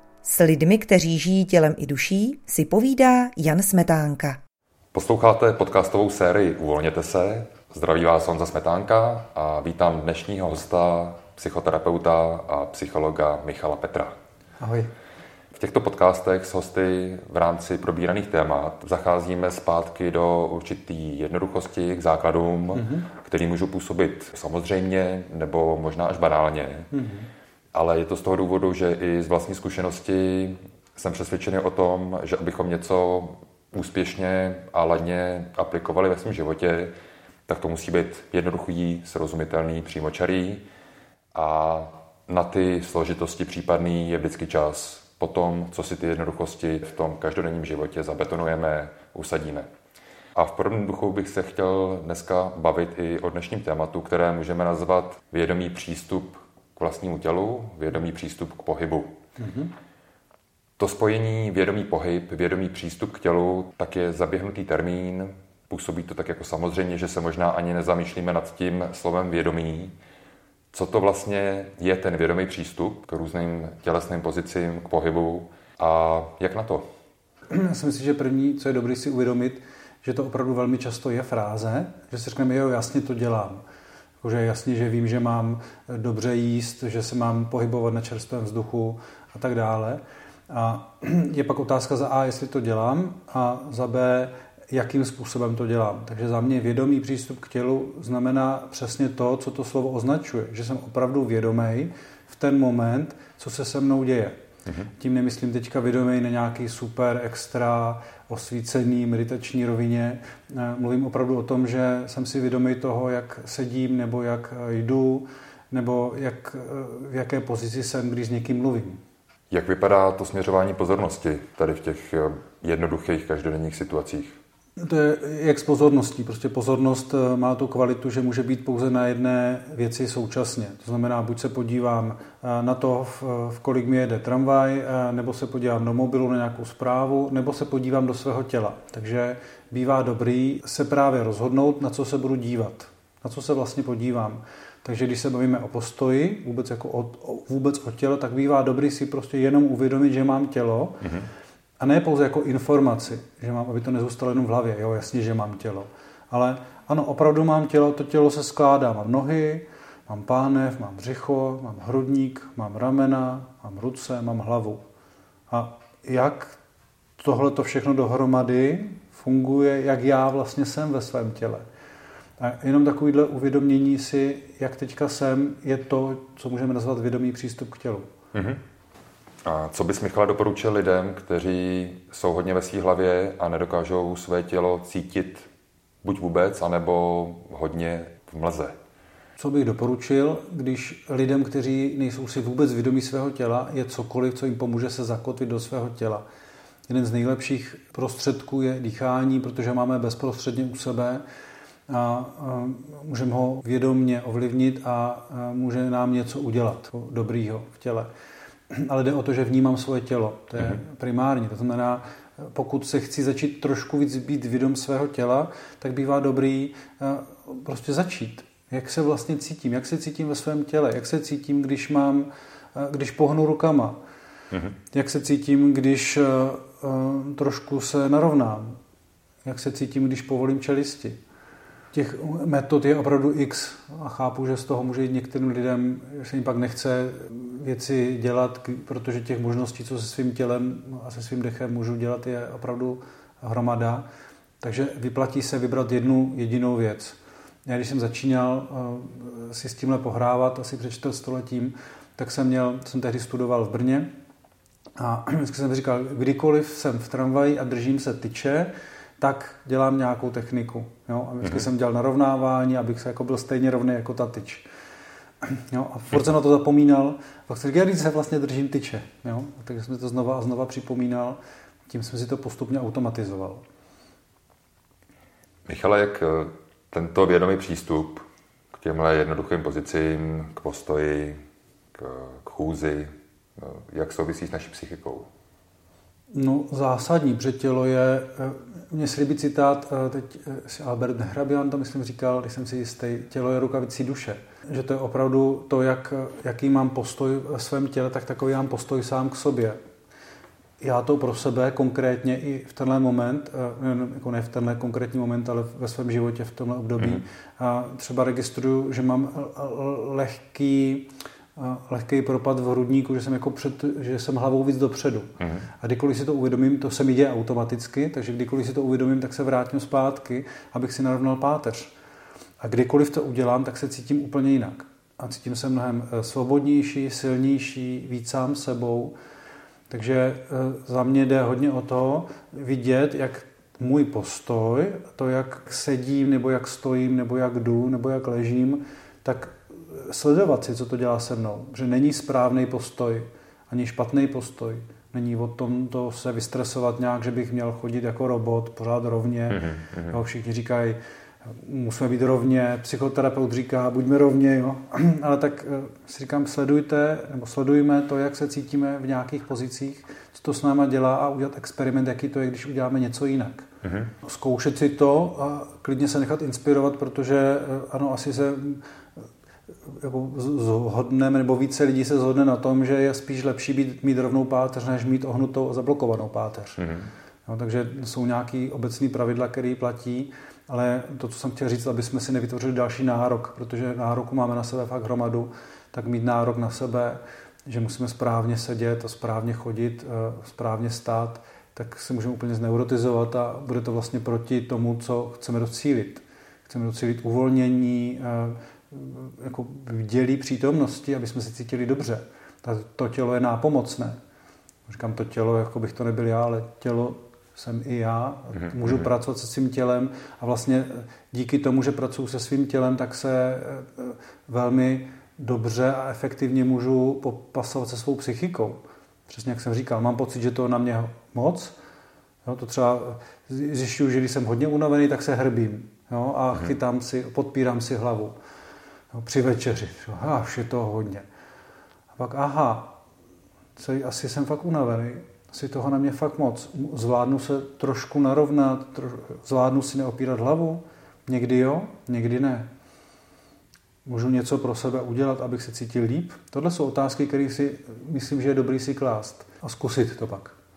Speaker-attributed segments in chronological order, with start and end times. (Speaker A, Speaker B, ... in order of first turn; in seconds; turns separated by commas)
Speaker A: 0.2-4.4, Speaker B: 4.9-14.1, Speaker C: 14.6-14.9, Speaker B: 15.5-26.9, Speaker C: 22.7-23.1, Speaker C: 26.9-27.3, Speaker B: 27.7-36.9, Speaker B: 37.5-40.6, Speaker B: 41.3-49.7, Speaker B: 50.3-59.2, Speaker C: 59.4-59.7, Speaker B: 60.8-69.9, Speaker B: 70.7-76.8, Speaker C: 77.5-83.6, Speaker C: 84.2-104.4, Speaker C: 105.0-119.0, Speaker B: 119.5-124.4, Speaker C: 124.8-151.1, Speaker C: 151.8-164.8, Speaker C: 165.5-166.6, Speaker C: 167.2-171.7, Speaker C: 172.4-178.1, Speaker B: 178.3-178.6, Speaker B: 179.4-185.5, Speaker B: 186.0-188.8, Speaker C: 189.4-196.2, Speaker C: 196.9-201.2, Speaker C: 201.9-208.1, Speaker C: 208.7-224.0, Speaker B: 224.5-224.8, Speaker C: 224.9-228.8, Speaker C: 229.4-231.2, Speaker C: 231.9-244.1, Speaker C: 244.6-254.1, Speaker C: 255.0-264.6, Speaker C: 265.4-273.6, Speaker B: 275.7-281.4, Speaker B: 281.9-285.3, Speaker C: 286.3-299.8, Speaker C: 300.8-321.9, Speaker B: 307.0-307.2, Speaker B: 315.4-315.7, Speaker C: 322.6-329.1, Speaker C: 329.9-363.7, Speaker B: 349.5-350.1, Speaker B: 363.8-364.1, Speaker C: 364.2-368.8, Speaker C: 369.8-376.9, Speaker B: 376.8-377.1, Speaker C: 377.4-404.1, Speaker C: 404.9-421.7, Speaker B: 408.5-409.1, Speaker C: 422.4-428.4, Speaker C: 429.1-431.2, Speaker C: 432.2-433.0, Speaker C: 433.8-442.7, Speaker C: 444.0-450.5